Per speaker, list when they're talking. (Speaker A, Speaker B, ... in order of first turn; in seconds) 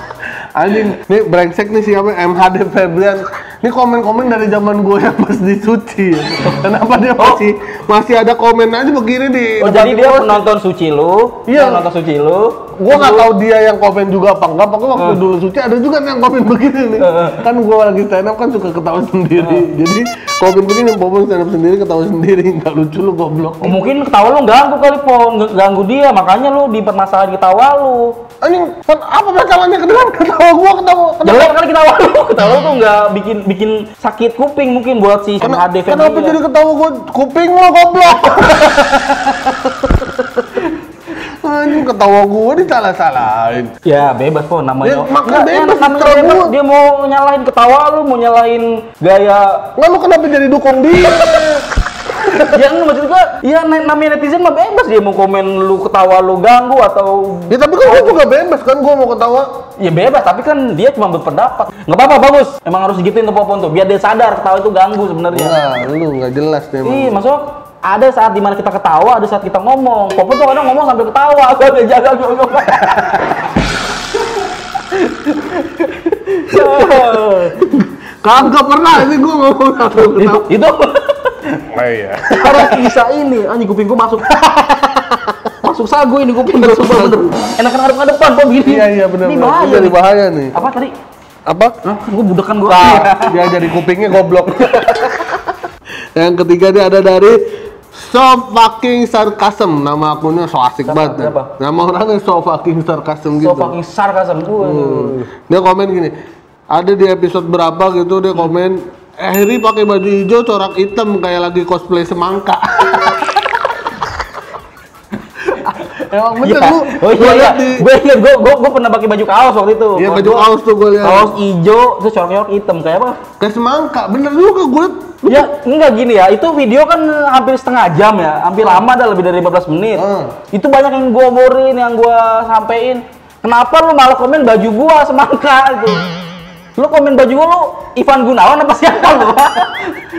Speaker A: 0.5-10.4, 11.5-11.8, 12.8-23.8, 28.4-31.6, 35.4-43.7, 44.8-46.5, 49.8-52.6, 57.5-59.5, 65.3-67.2, 76.6-77.1, 78.2-80.5, 81.7-82.9, 84.3-85.3, 86.5-87.2, 88.6-90.5, 91.5-91.8, 92.7-95.5, 96.2-97.4, 97.9-103.7, 104.6-106.1, 106.7-113.6, 115.5-117.8, 120.0-121.3, 123.4-125.2, 128.6-128.8, 129.9-130.3
Speaker B: 9.6-13.3, 14.9-15.2, 17.0-17.4, 19.4-19.6, 23.6-28.2, 31.2-36.4, 43.8-49.7, 52.5-58.2, 59.8-65.6, 66.8-73.4, 74.9-77.9, 79.9-81.6, 82.3-84.4, 85.6-90.9, 91.8-93.4, 100.8-101.5, 103.3-105.3, 116.4-120.5, 121.0-123.2, 125.2-136.0, 136.8-140.0